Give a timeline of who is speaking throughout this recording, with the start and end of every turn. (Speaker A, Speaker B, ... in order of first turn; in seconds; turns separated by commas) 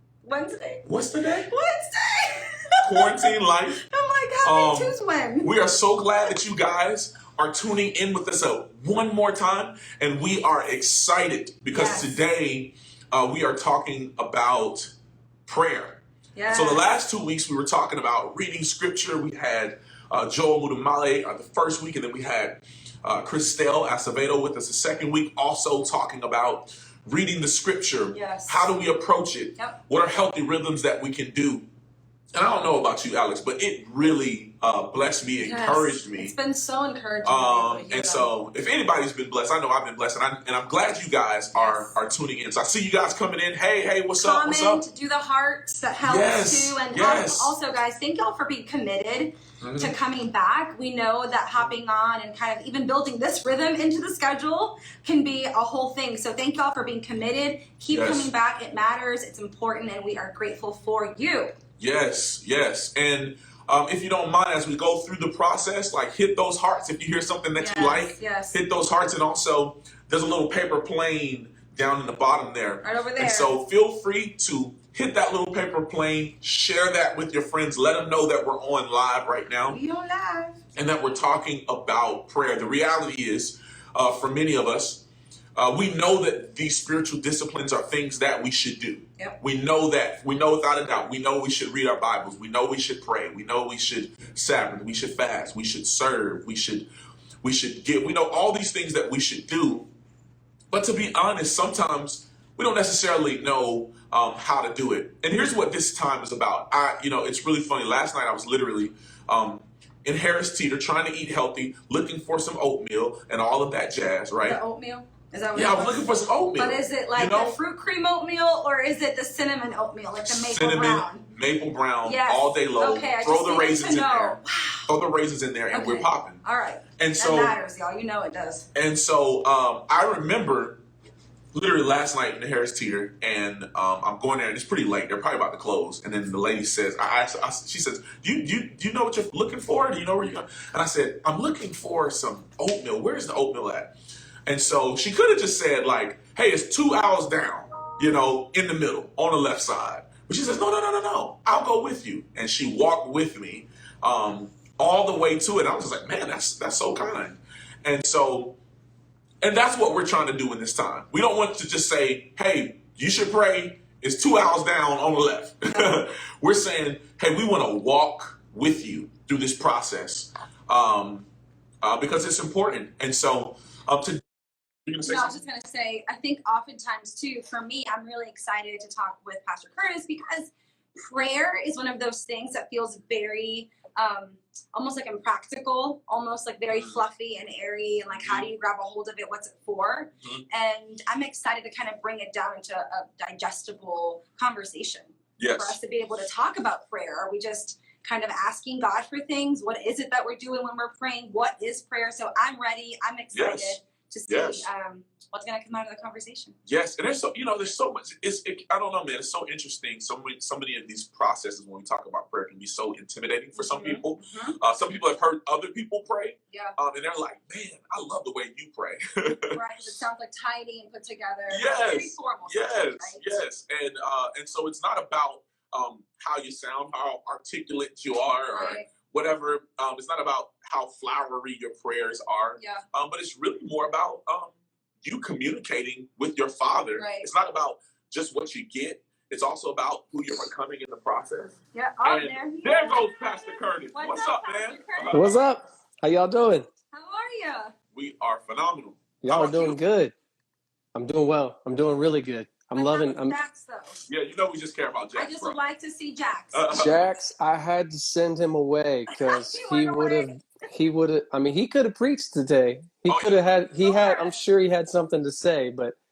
Speaker A: 0.2-0.8, Speaker B: 0.8-1.5, Speaker A: 1.5-5.5, Speaker B: 2.8-3.8, Speaker B: 4.4-14.9, Speaker A: 11.7-12.2, Speaker B: 15.5-31.6, Speaker A: 16.3-16.8, Speaker A: 28.1-28.7, Speaker B: 32.3-36.3, Speaker A: 35.4-38.3, Speaker B: 37.2-44.8, Speaker A: 41.5-41.9, Speaker A: 44.1-61.5, Speaker B: 46.0-47.5, Speaker B: 49.6-49.9, Speaker B: 57.9-58.3, Speaker B: 61.8-79.8, Speaker A: 67.5-68.6, Speaker A: 72.8-73.6, Speaker A: 79.7-80.6, Speaker B: 80.8-85.0, Speaker B: 85.5-96.9, Speaker B: 97.4-99.9, Speaker B: 100.7-114.6, Speaker A: 114.4-121.2, Speaker B: 115.5-117.5, Speaker B: 120.2-126.4, Speaker A: 122.0-124.9, Speaker A: 125.7-128.7, Speaker B: 127.0-127.5, Speaker B: 128.7-130.8, Speaker B: 131.5-143.9, Speaker B: 144.4-158.6, Speaker B: 159.4-171.3, Speaker A: 165.7-165.9, Speaker B: 171.8-174.2, Speaker B: 174.8-175.4, Speaker A: 175.0-206.6, Speaker B: 186.7-187.0, Speaker B: 188.2-188.5, Speaker B: 195.4-195.8, Speaker B: 203.3-204.7, Speaker B: 206.7-219.6, Speaker A: 213.5-214.6, Speaker A: 216.5-216.7, Speaker A: 219.5-223.3, Speaker B: 221.5-245.4, Speaker A: 228.5-228.9, Speaker A: 232.6-232.8, Speaker A: 236.9-237.3, Speaker A: 241.7-245.4, Speaker C: 245.1-246.7, Speaker A: 246.9-247.7, Speaker B: 247.9-249.8, Speaker C: 249.2-250.1, Speaker C: 250.9-253.4, Speaker A: 252.7-254.0, Speaker B: 254.1-255.6, Speaker A: 255.1-256.7, Speaker B: 256.5-257.1, Speaker C: 256.7-265.9, Speaker A: 259.1-260.3, Speaker B: 263.1-263.5, Speaker A: 263.7-264.4